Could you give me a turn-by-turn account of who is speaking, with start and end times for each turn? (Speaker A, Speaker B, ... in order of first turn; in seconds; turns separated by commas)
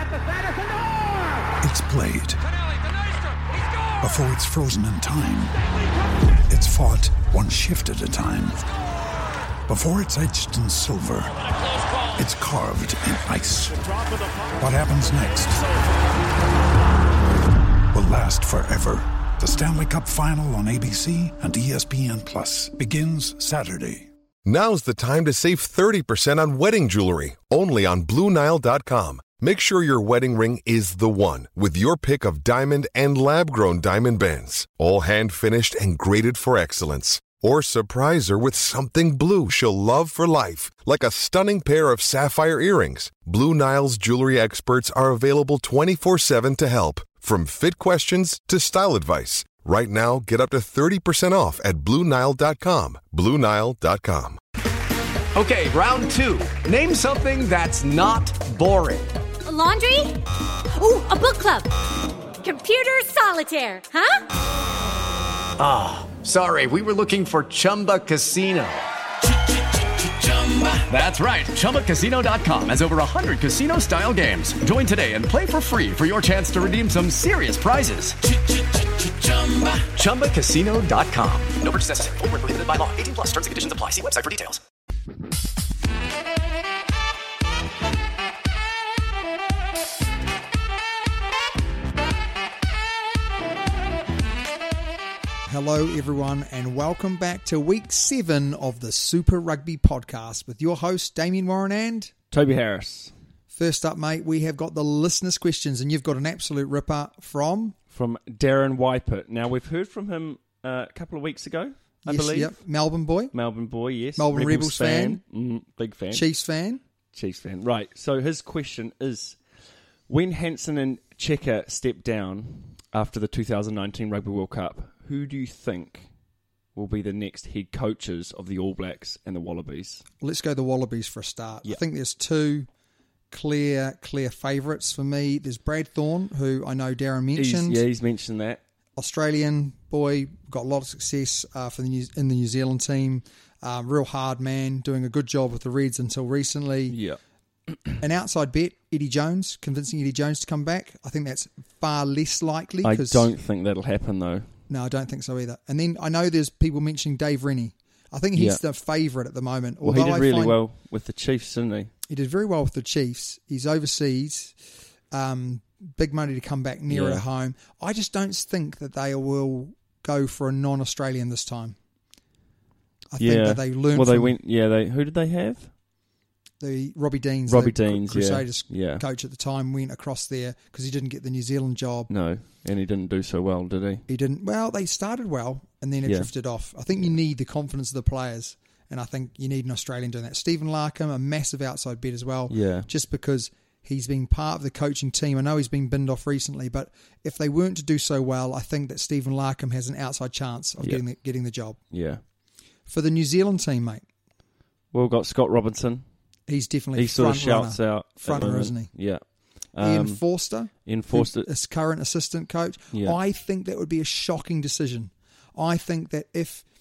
Speaker A: 1.6-2.4, Speaker A: 4.0-5.6, Speaker A: 6.5-8.6, Speaker A: 9.7-13.9, Speaker A: 14.6-15.7, Speaker A: 17.9-24.1, Speaker B: 24.4-54.4, Speaker C: 55.3-59.1, Speaker D: 59.4-61.7, Speaker D: 62.4-64.2, Speaker C: 65.6-68.8, Speaker C: 70.0-78.2, Speaker C: 79.0-84.6, Speaker E: 95.5-102.1, Speaker F: 102.3-103.1, Speaker E: 103.5-107.8, Speaker F: 107.9-112.5, Speaker E: 112.0-113.3, Speaker F: 113.3-116.2, Speaker E: 114.2-115.2, Speaker E: 116.1-116.8, Speaker F: 117.1-119.4, Speaker F: 120.1-126.1, Speaker F: 126.7-130.0, Speaker E: 130.2-132.7, Speaker E: 133.3-137.8, Speaker F: 137.3-138.6, Speaker E: 139.0-147.0, Speaker F: 146.9-147.2, Speaker E: 148.0-153.3, Speaker F: 152.8-154.5, Speaker E: 154.7-160.6, Speaker F: 158.3-158.6, Speaker F: 159.8-161.9, Speaker E: 162.1-164.6, Speaker E: 165.1-171.8, Speaker F: 166.9-167.2, Speaker E: 173.1-174.3, Speaker F: 173.2-175.7, Speaker E: 176.6-182.1, Speaker F: 177.5-179.0, Speaker F: 182.1-184.0, Speaker E: 184.1-201.8, Speaker F: 186.0-186.3, Speaker F: 192.5-192.9, Speaker F: 201.9-202.2, Speaker E: 202.9-204.0, Speaker F: 204.9-206.0, Speaker E: 206.5-208.9, Speaker F: 206.9-210.2, Speaker E: 209.8-216.6, Speaker F: 210.8-211.5, Speaker F: 212.9-213.2